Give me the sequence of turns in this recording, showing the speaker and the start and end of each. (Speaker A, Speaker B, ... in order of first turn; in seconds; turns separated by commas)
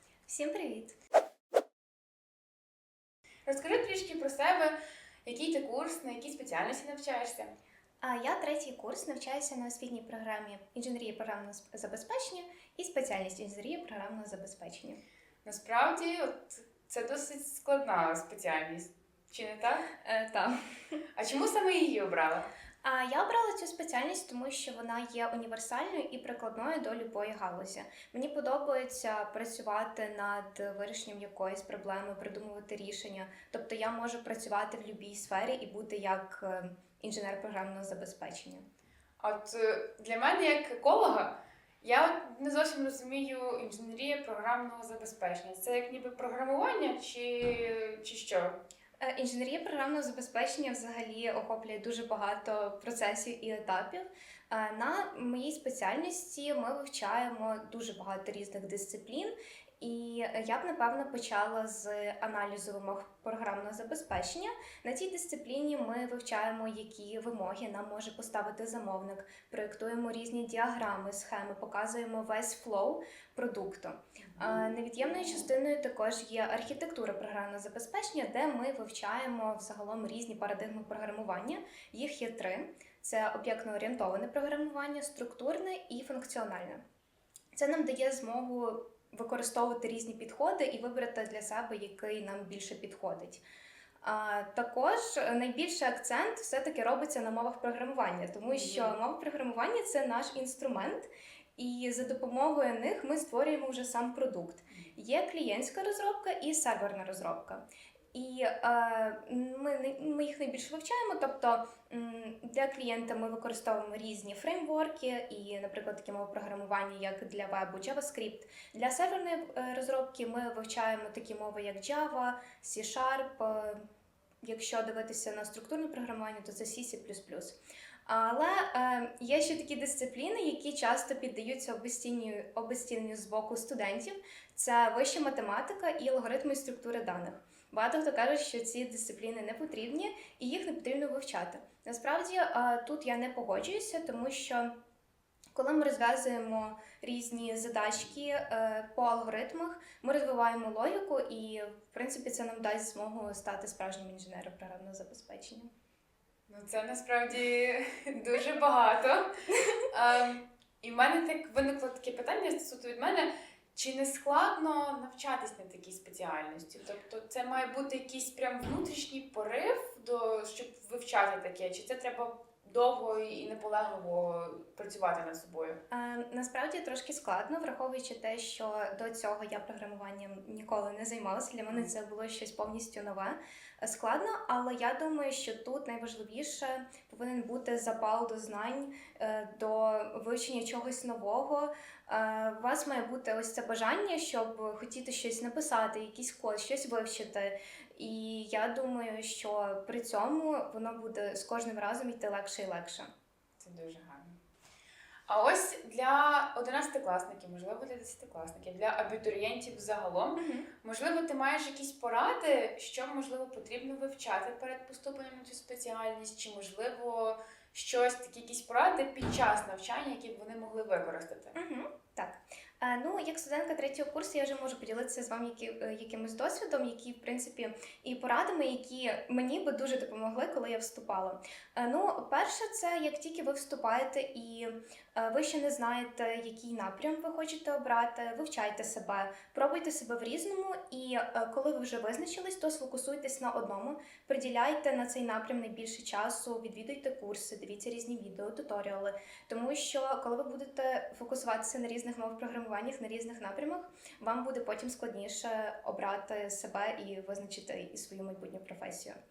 Speaker A: 0.3-1.0, Speaker B: 3.5-7.5, Speaker A: 8.0-15.0, Speaker B: 15.4-19.9, Speaker A: 20.0-20.6, Speaker B: 21.2-22.5, Speaker A: 22.8-38.6, Speaker B: 39.2-48.6, Speaker A: 49.0-86.8, Speaker A: 87.5-93.4, Speaker A: 94.0-107.6, Speaker B: 98.5-99.0, Speaker A: 108.1-123.8, Speaker A: 124.4-144.7, Speaker A: 145.5-155.7, Speaker B: 156.5-159.3, Speaker A: 159.6-159.8, Speaker B: 159.9-175.8, Speaker A: 175.9-203.1, Speaker B: 203.6-204.3, Speaker B: 205.3-221.5, Speaker A: 210.4-210.7, Speaker A: 221.5-259.1